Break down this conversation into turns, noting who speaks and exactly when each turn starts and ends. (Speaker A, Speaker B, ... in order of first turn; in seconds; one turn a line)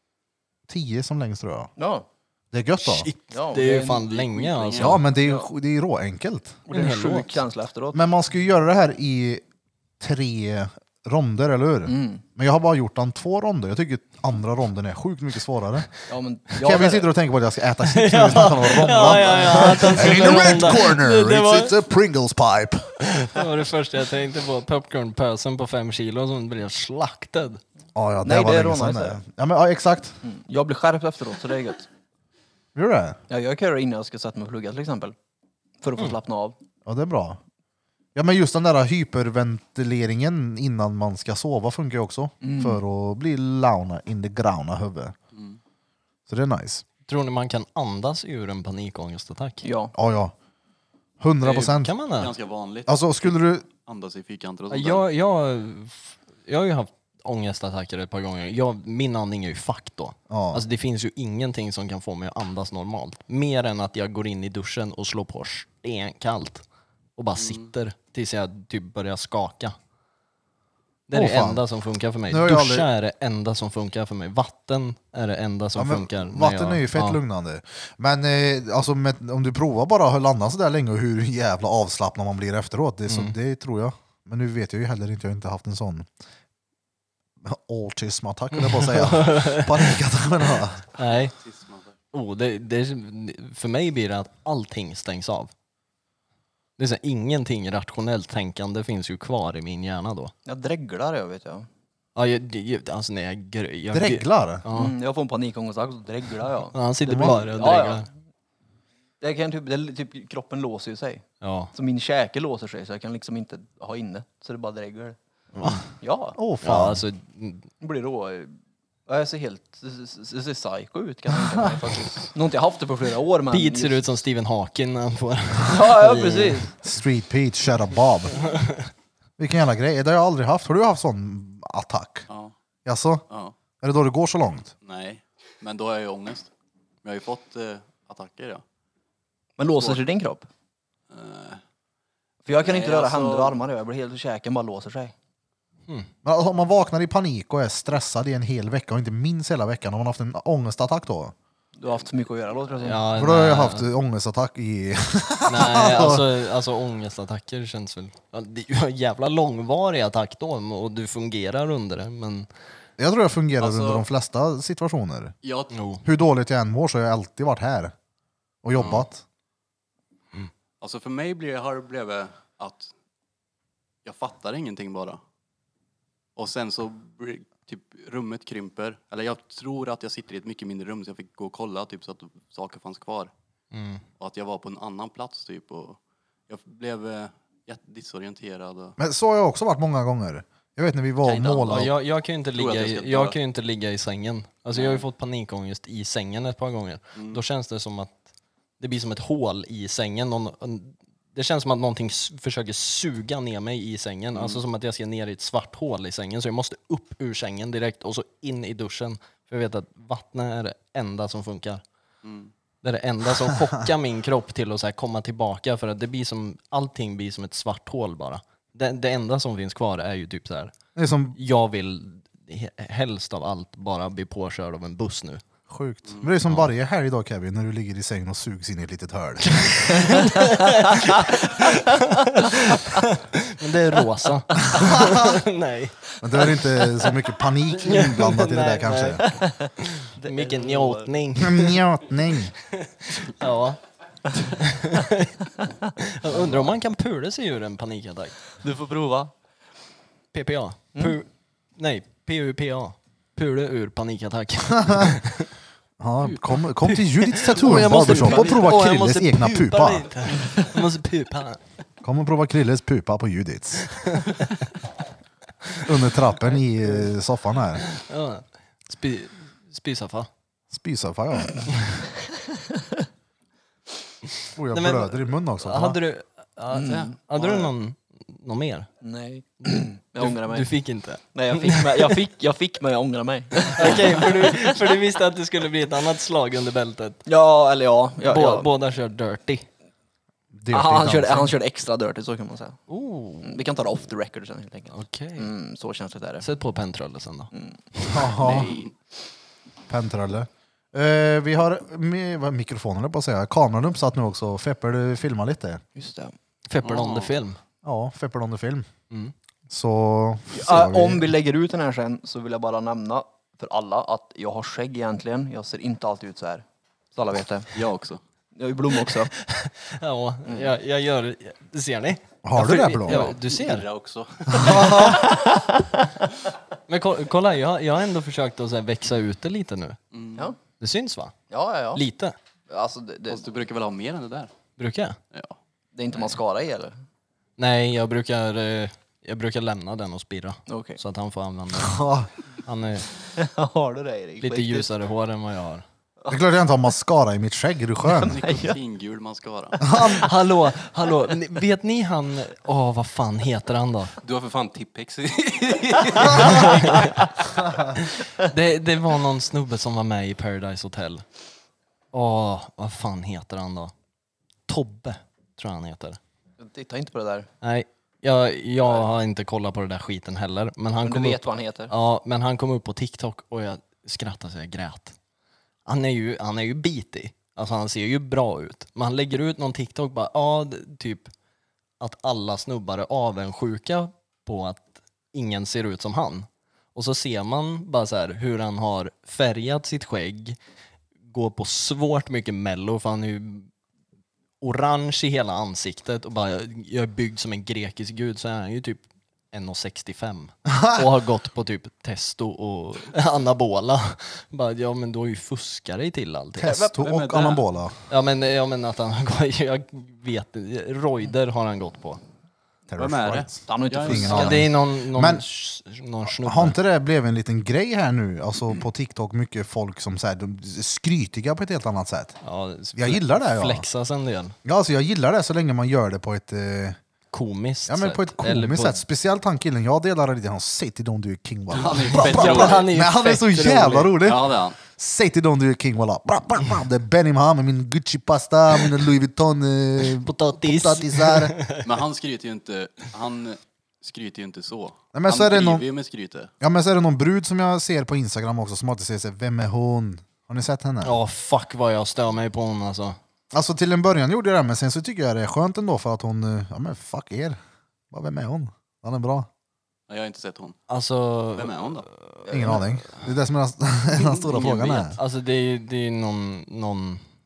Speaker A: 0.7-1.7
Speaker B: 1.8-2.0
Speaker A: 2.5-3.1
Speaker C: 2.8-5.0
Speaker B: 3.3-4.1
Speaker D: 3.8-5.0
Speaker A: 4.8-6.6
Speaker B: 5.2-5.4
Speaker B: 6.7-8.0
Speaker C: 6.7-7.4
Speaker A: 7.9-9.4
Speaker A: 10.0-15.9
Speaker B: 11.8-12.2
Speaker B: 16.1-17.1
Speaker A: 16.6-23.0
Speaker C: 17.9-21.7
Speaker B: 19.0-20.5
Speaker C: 23.0-27.6
Speaker A: 27.9-30.2
Speaker B: 28.2-29.2
Speaker B: 30.2-31.9
Speaker A: 32.8-33.2
Speaker B: 33.3-35.1
Speaker B: 35.8-36.5
Speaker A: 36.9-37.4
Speaker A: 38.1-45.1
Speaker B: 42.4-42.8
Speaker D: 45.3-45.6
Speaker A: 46.3-46.8
Speaker C: 47.1-49.6
Speaker B: 49.6-49.9
Speaker A: 49.9-50.3
Speaker A: 51.2-51.9
Speaker D: 51.4-55.0
Speaker C: 51.5-52.3
Speaker A: 52.9-53.7
Speaker C: 54.7-66.6
Speaker A: 60.3-60.6
Speaker C: 67.2-69.7
Speaker D: 67.4-67.7
Speaker C: 71.1-77.2
Speaker A: 71.1-71.6
Speaker A: 72.3-72.9
Speaker A: 75.8-86.1
Speaker C: 83.1-83.3
Speaker A: 87.4-90.8
Speaker C: 88.6-90.0
Speaker C: 91.0-91.3
Speaker D: 91.1-91.9
Speaker C: 92.1-95.5
Speaker C: 96.8-100.3
Speaker B: 100.5-101.7
Speaker C: 102.2-104.9
Speaker A: 103.9-104.6
Speaker B: 104.7-108.1
Speaker C: 106.7-108.1
Speaker A: 107.0-107.4
Speaker B: 109.2-115.2
Speaker C: 111.4-111.7
Speaker A: 115.6-115.8
Speaker B: 116.0-116.4
Speaker A: 116.3-117.0
Speaker C: 116.6-117.7
Speaker B: 117.8-124.0
Speaker C: 123.5-126.7
Speaker B: 125.7-126.7
Speaker A: 126.8-128.4
Speaker C: 128.5-128.8
Speaker A: 129.4-132.3
Speaker D: 132.3-132.5
Speaker A: 132.8-133.2
Speaker D: 133.3-133.5
Speaker A: 133.8-134.7
Speaker D: 134.8-136.5
Speaker D: 137.0-138.6
Speaker B: 139.6-140.5
Speaker D: 141.1-141.6
Speaker B: 142.4-145.1
Speaker D: 142.6-143.6
Speaker A: 146.2-151.3
Speaker B: 151.8-153.0
Speaker C: 152.8-153.8
Speaker A: 153.1-156.2
Speaker C: 155.5-162.5
Speaker A: 163.0-165.3
Speaker D: 163.6-164.1
Speaker D: 165.4-165.7
Speaker C: 165.7-166.0
Speaker A: 166.0-167.9
Speaker A: 168.6-169.2
Speaker D: 168.8-169.1
Speaker D: 170.8-172.9
Speaker D: 174.0-175.2
Speaker D: 176.3-183.3
Speaker C: 183.7-184.0
Speaker D: 184.2-188.9
Speaker A: 189.0-191.9
Speaker D: 191.2-191.9
Speaker C: 191.7-198.2
Speaker D: 192.5-193.4
Speaker D: 194.7-195.1
Speaker D: 197.1-197.4
Speaker C: 198.8-211.8
Speaker D: 204.3-204.6
Speaker D: 212.2-212.5
Speaker C: 212.8-220.7
Speaker A: 220.9-221.4
Speaker C: 221.3-225.4
Speaker A: 225.7-230.1
Speaker D: 226.1-226.3
Speaker C: 229.6-236.6
Speaker B: 231.0-232.9
Speaker A: 234.6-235.4
Speaker A: 236.2-239.2
Speaker C: 237.7-241.8
Speaker B: 239.3-241.1
Speaker A: 241.3-242.5
Speaker C: 242.6-243.8
Speaker C: 244.6-248.5
Speaker B: 246.3-246.7
Speaker B: 248.6-249.3
Speaker C: 250.3-255.5
Speaker A: 254.8-255.1
Speaker A: 256.0-260.1
Speaker C: 256.8-261.6
Speaker B: 258.2-258.5
Speaker A: 262.0-263.9
Speaker C: 263.9-264.4
Speaker A: 265.8-267.8
Speaker C: 267.8-270.3
Speaker A: 270.7-271.7
Speaker A: 274.6-276.0
Speaker C: 274.7-278.9
Speaker B: 276.7-277.7
Speaker B: 279.0-280.7
Speaker C: 279.6-282.2
Speaker B: 281.3-284.9
Speaker C: 283.6-287.2
Speaker B: 287.2-288.7
Speaker C: 288.2-289.7
Speaker A: 290.5-291.5
Speaker B: 290.7-292.8
Speaker C: 292.9-293.7
Speaker B: 293.4-296.4
Speaker C: 294.9-295.5
Speaker C: 296.4-298.3
Speaker B: 297.5-297.8
Speaker A: 298.1-298.7
Speaker B: 298.3-298.7
Speaker D: 298.4-298.9
Speaker A: 299.9-305.8
Speaker B: 305.9-306.3
Speaker C: 306.7-307.6
Speaker D: 306.8-307.3
Speaker A: 307.8-308.9
Speaker A: 309.7-311.3
Speaker B: 310.5-317.7
Speaker D: 317.7-318.2
Speaker B: 318.6-319.3
Speaker C: 319.1-323.9
Speaker B: 320.4-320.7
Speaker A: 322.4-323.3
Speaker D: 323.4-325.1
Speaker A: 324.5-325.2
Speaker C: 324.6-324.9
Speaker B: 324.7-325.7
Speaker C: 326.9-330.0
Speaker D: 330.1-330.5
Speaker C: 330.8-331.3
Speaker B: 331.5-332.0
Speaker C: 331.9-332.4
Speaker B: 332.7-333.4
Speaker D: 333.3-334.5
Speaker C: 334.8-335.2
Speaker B: 335.9-336.9
Speaker C: 337.6-342.0
Speaker B: 340.7-341.0
Speaker A: 341.8-342.3
Speaker C: 342.6-343.1
Speaker B: 343.4-344.9
Speaker C: 344.4-345.8
Speaker A: 346.3-348.4
Speaker B: 348.1-348.8
Speaker D: 348.3-349.8
Speaker A: 349.8-350.2
Speaker C: 350.1-354.1
Speaker E: 354.2-357.2
Speaker C: 356.4-357.2
Speaker C: 358.0-361.2
Speaker C: 362.1-363.9
Speaker C: 364.7-366.2
Speaker B: 366.6-367.5
Speaker C: 367.6-375.1
Speaker B: 371.0-371.9
Speaker C: 375.9-381.3
Speaker C: 382.0-390.6
Speaker C: 391.3-393.7
Speaker C: 394.6-406.9
Speaker A: 400.7-401.0
Speaker A: 406.6-408.0
Speaker B: 406.6-406.9
Speaker D: 407.0-407.6
Speaker C: 408.1-412.2
Speaker A: 412.9-415.4
Speaker D: 413.0-414.6
Speaker B: 413.6-414.7
Speaker C: 414.3-416.8
Speaker A: 416.3-422.4
Speaker C: 422.4-424.6
Speaker A: 422.9-423.8
Speaker A: 424.6-427.0
Speaker C: 427.3-429.0
Speaker A: 427.9-441.6
Speaker D: 431.7-432.9
Speaker C: 432.1-434.2
Speaker D: 434.2-434.8
Speaker C: 440.1-441.9
Speaker D: 441.8-446.5
Speaker A: 445.1-445.9
Speaker A: 446.6-451.1
Speaker C: 451.0-453.2
Speaker A: 453.5-457.6
Speaker A: 458.1-459.5
Speaker D: 460.1-460.8
Speaker C: 460.9-462.8
Speaker D: 461.6-462.1
Speaker B: 462.5-462.8
Speaker A: 462.5-465.2
Speaker D: 464.2-465.1
Speaker C: 465.1-467.2